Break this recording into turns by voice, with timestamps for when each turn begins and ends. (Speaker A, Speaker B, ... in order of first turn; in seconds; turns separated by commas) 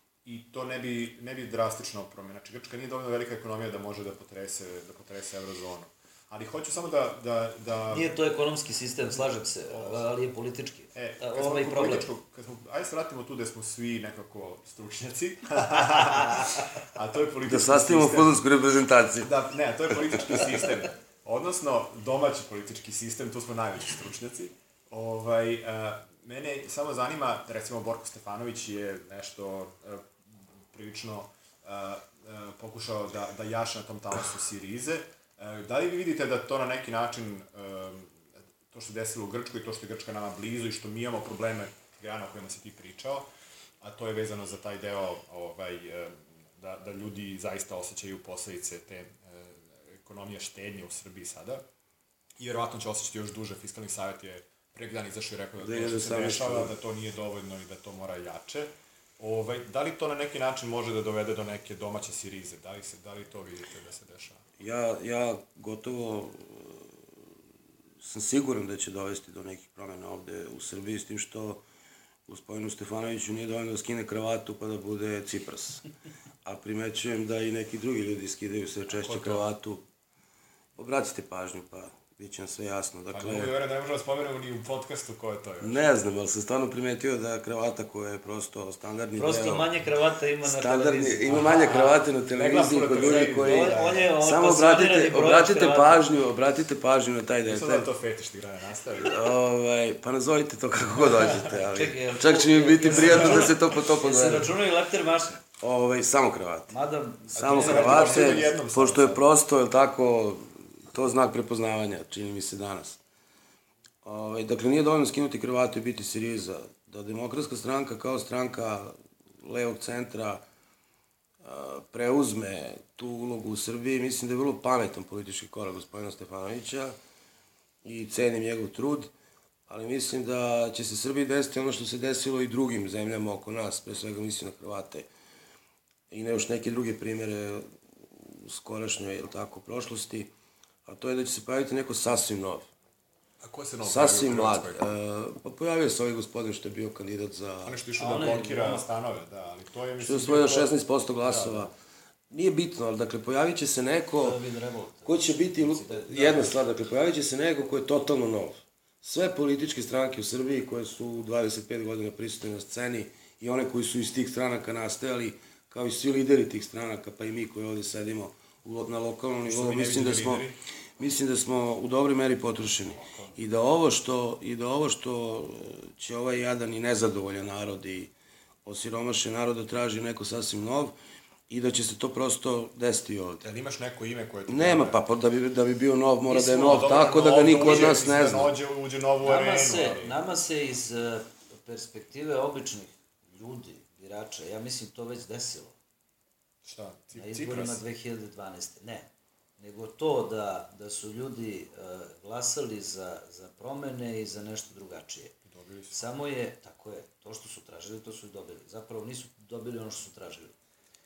Speaker A: 0.2-8.1, Speaker B: 7.9-12.1, Speaker A: 9.2-10.1, Speaker A: 10.9-18.4, Speaker C: 17.4-19.3, Speaker A: 19.2-30.1, Speaker C: 20.1-20.4, Speaker A: 30.7-43.3, Speaker A: 43.8-51.6, Speaker A: 52.4-64.4, Speaker C: 55.6-56.7, Speaker C: 64.6-67.2, Speaker C: 68.0-71.6, Speaker C: 72.3-75.8, Speaker C: 76.4-79.8, Speaker A: 78.9-79.4, Speaker C: 80.8-83.5, Speaker A: 83.1-85.8, Speaker C: 85.6-89.7, Speaker B: 89.2-92.0, Speaker C: 90.4-97.9, Speaker A: 92.3-94.1, Speaker B: 92.9-96.1, Speaker A: 97.5-99.1, Speaker C: 99.0-104.5, Speaker B: 101.6-105.4, Speaker A: 103.0-103.3, Speaker C: 105.6-106.8, Speaker B: 106.7-108.5, Speaker A: 107.3-109.2, Speaker C: 107.4-113.0, Speaker C: 114.0-120.4, Speaker C: 121.4-127.0, Speaker C: 127.8-129.1, Speaker C: 129.7-135.1, Speaker C: 136.1-140.3, Speaker C: 140.8-142.7, Speaker A: 143.4-144.8, Speaker C: 143.8-147.8, Speaker A: 147.6-151.7, Speaker B: 148.0-148.8, Speaker C: 150.0-151.7, Speaker C: 152.3-154.4, Speaker B: 154.2-156.4, Speaker C: 155.0-170.4, Speaker A: 156.1-156.5, Speaker A: 169.4-170.6, Speaker C: 171.0-178.1, Speaker A: 173.1-173.3, Speaker C: 178.6-180.9, Speaker C: 181.5-183.4, Speaker A: 183.4-185.0, Speaker C: 184.5-188.5, Speaker B: 186.3-187.0, Speaker A: 186.6-190.1, Speaker B: 187.6-188.0, Speaker B: 189.2-195.7, Speaker A: 196.6-197.8, Speaker B: 197.1-199.1, Speaker B: 199.6-205.3, Speaker A: 205.4-206.0, Speaker B: 205.9-210.5